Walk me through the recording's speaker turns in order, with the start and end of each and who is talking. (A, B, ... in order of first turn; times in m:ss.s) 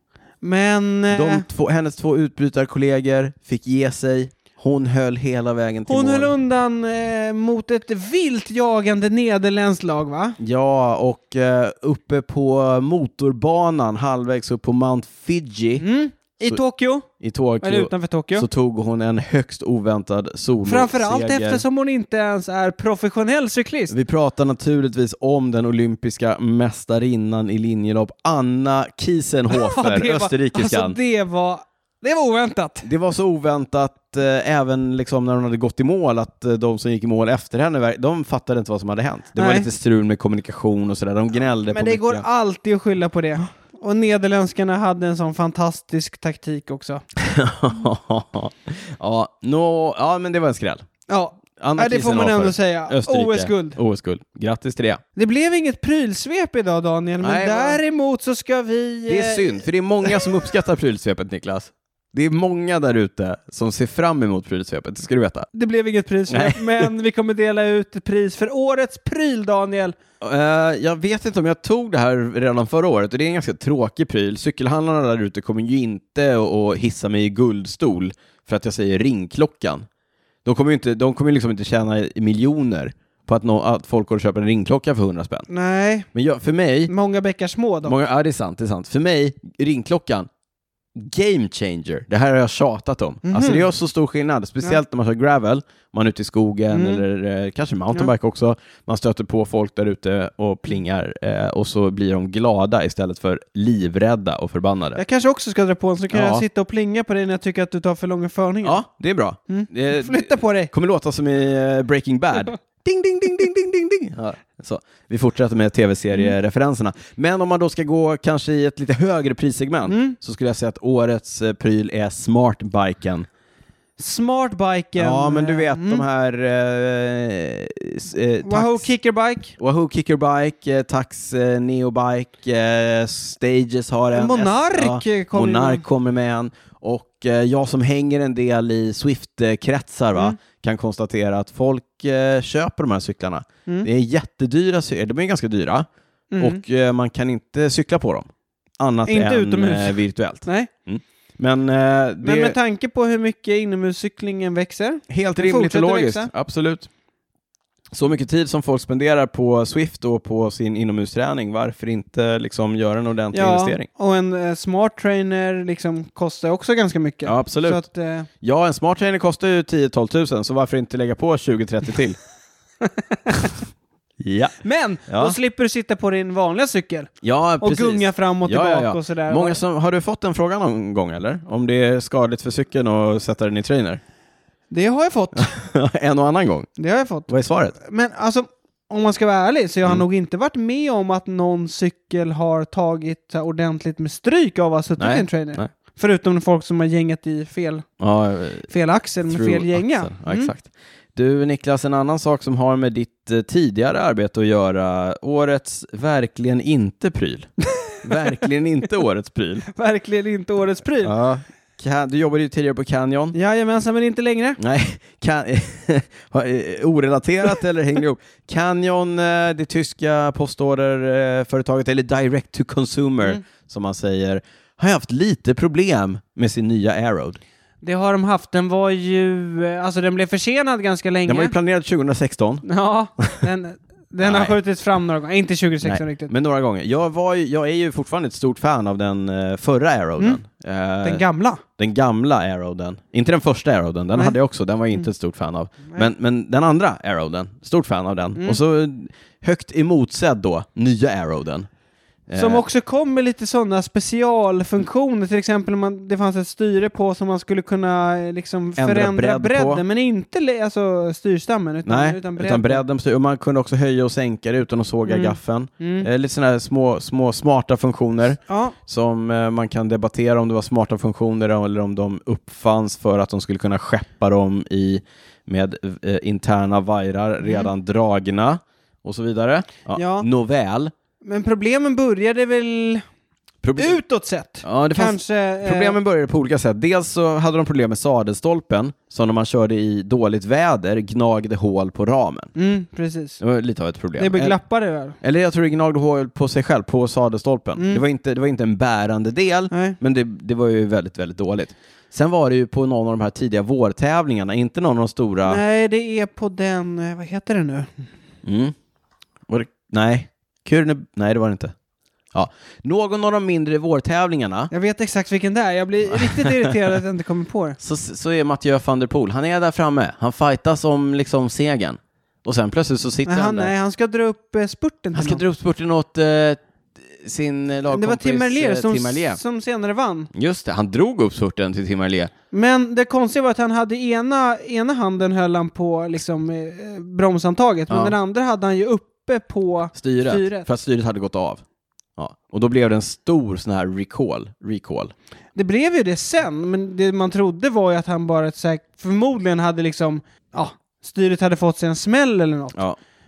0:00.4-0:01.4 A
0:01.1-0:06.3 B
0:05.9-0:10.4 A
0:10.4-0:15.8 B
0:15.8-0:17.1 A
0:17.2-0:21.6 B
0:17.6-0:18.5 A
0:20.6-0:23.9 A
0:23.9-0:31.0 B
0:29.5-0:32.9 A
0:32.8-0:42.2 B
0:39.4-0:39.7 A
0:41.7-0:47.0 A
0:47.2-0:50.8 B
0:51.1-0:53.8 A
0:51.6-0:55.0 B
0:55.2-1:00.3 A
0:57.2-0:57.8 B
0:59.1-1:05.5 B
1:05.5-1:10.0 A
1:06.3-1:06.9 B
1:10.2-1:19.8 B
1:20.4-1:25.5 B
1:25.5-1:26.1 A
1:26.1-1:26.9 B
1:26.9-1:27.9 A
1:27.8-1:30.3 B
1:30.9-1:45.0 B
1:33.2-1:33.7 A
1:36.7-1:37.0 A
1:45.0-1:48.8 A
1:46.1-1:46.4 B
1:48.6-2:03.3 B
1:49.5-1:50.7 A
1:59.9-2:00.2 A
2:04.0-2:06.0 A
2:05.0-2:08.9 B
2:08.4-2:09.5 A
2:09.6-2:25.8 B
2:14.1-2:15.8 A
2:26.3-2:26.6 A
2:26.4-2:28.3 B
2:28.8-2:32.6 B
2:29.0-2:30.7 A
2:32.2-2:36.3 A
2:35.1-2:36.9 B
2:37.9-2:43.9 B
2:43.3-2:48.3 A
2:47.2-2:47.8 B
2:48.4-2:52.2 B
2:52.8-2:53.5 A
2:54.2-2:55.4 B
2:54.6-2:59.6 A
2:57.2-3:04.0 B
3:04.7-3:05.5 A
3:05.4-3:06.7 B
3:06.8-3:17.8 A
3:07.3-3:07.8 B
3:15.0-3:15.7 B
3:18.0-3:18.7 B
3:18.7-3:20.5 A
3:19.2-3:27.5 B
3:27.8-3:28.3 A
3:28.0-3:29.7 B
3:29.7-3:31.1 A
3:31.0-3:33.4 B
3:33.3-3:34.6 A
3:34.6-3:47.4 B
3:47.8-3:51.5 A
3:51.3-3:52.6 B
3:52.6-3:56.3 A
3:53.2-3:53.4 B
3:54.2-3:54.6 B
3:55.8-4:01.2 B
4:01.0-4:01.6 A
4:01.8-4:11.7 B
4:12.3-4:12.6 B
4:12.4-4:22.8 A
4:18.8-4:19.8 B
4:21.8-4:40.9 B
4:25.0-4:26.1 A
4:28.5-4:28.8 A
4:37.4-4:37.7 A
4:39.9-4:40.3 A
4:41.2-4:43.0 A
4:43.6-4:44.0 B
4:43.8-4:46.0 A
4:44.6-4:52.5 B
4:52.5-4:53.4 A
4:53.4-4:54.6 B
4:54.2-4:55.2 A
4:55.2-5:05.6 B
4:57.8-4:58.0 A
4:59.7-5:00.0 A
5:05.4-5:08.0 A
5:08.4-5:08.7 B
5:09.5-5:11.7 B
5:12.3-5:14.7 B
5:14.7-5:17.8 A
5:16.1-5:16.7 B
5:17.8-5:23.7 B
5:23.2-5:25.4 A
5:25.1-5:29.4 B
5:27.9-5:30.3 A
5:30.3-5:32.3 B
5:32.5-5:40.7 A
5:37.9-5:38.2 B
5:39.9-5:41.6 B
5:42.2-5:45.1 B
5:45.5-5:52.8 A